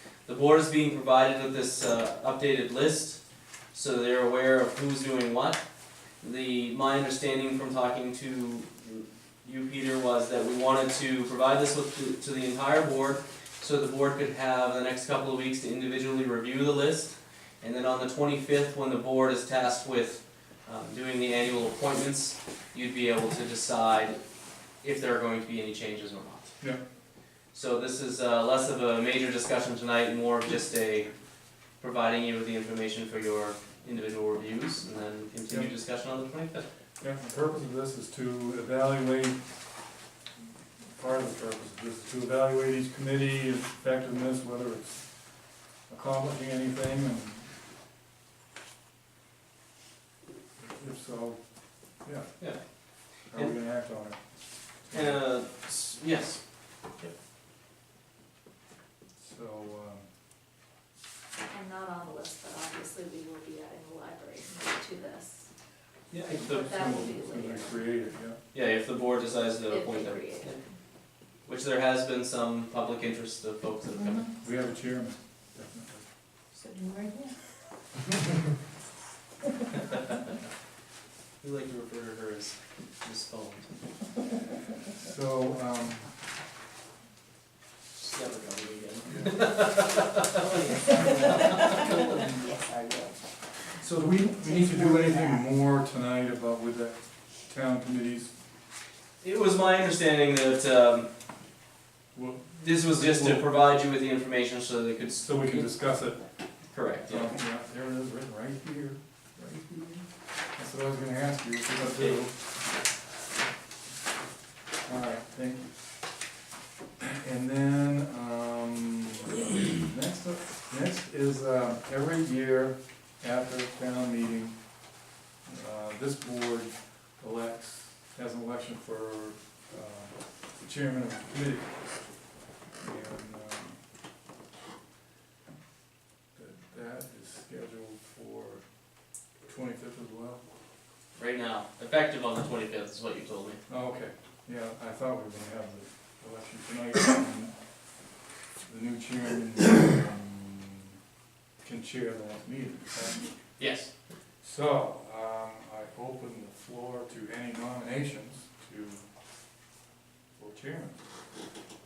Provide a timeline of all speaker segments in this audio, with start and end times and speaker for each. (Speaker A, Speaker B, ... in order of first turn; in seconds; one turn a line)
Speaker A: 0.3-3.2
Speaker A: 3.7-5.6
Speaker A: 6.2-24.2
Speaker A: 24.8-26.6
Speaker A: 27.5-31.1
Speaker A: 31.8-36.6
Speaker B: 37.0-39.4
Speaker B: 40.9-47.5
Speaker B: 50.6-51.4
Speaker B: 52.0-52.5
Speaker A: 52.4-53.5
Speaker B: 53.3-55.2
Speaker A: 54.9-56.4
Speaker B: 59.2-60.1
Speaker C: 61.5-65.5
Speaker A: 66.1-66.8
Speaker B: 66.2-68.4
Speaker C: 66.4-67.7
Speaker A: 68.5-70.6
Speaker C: 69.7-70.6
Speaker A: 71.5-74.3
Speaker B: 74.4-76.0
Speaker D: 76.6-77.3
Speaker A: 81.4-83.7
Speaker B: 84.9-86.1
Speaker A: 88.0-91.9
Speaker B: 89.0-89.6
Speaker D: 90.5-93.1
Speaker B: 90.7-92.3
Speaker B: 93.8-98.3
Speaker D: 94.5-95.4
Speaker A: 99.2-101.1
Speaker B: 102.1-103.5
Speaker A: 102.6-105.7
Speaker B: 105.2-106.2
Speaker A: 106.7-107.3
Speaker B: 107.1-110.0
Speaker B: 110.5-112.3
Speaker A: 111.8-112.2
Speaker B: 114.8-115.9
Speaker B: 117.1-124.6
Speaker B: 125.4-131.8
Speaker B: 132.8-133.8
Speaker B: 136.3-138.7
Speaker B: 139.4-140.4
Speaker A: 141.2-143.6
Speaker B: 143.7-147.7
Speaker B: 148.7-150.9
Speaker B: 151.6-153.3
Speaker A: 153.6-153.9
Speaker B: 154.4-159.1
Speaker B: 160.4-161.0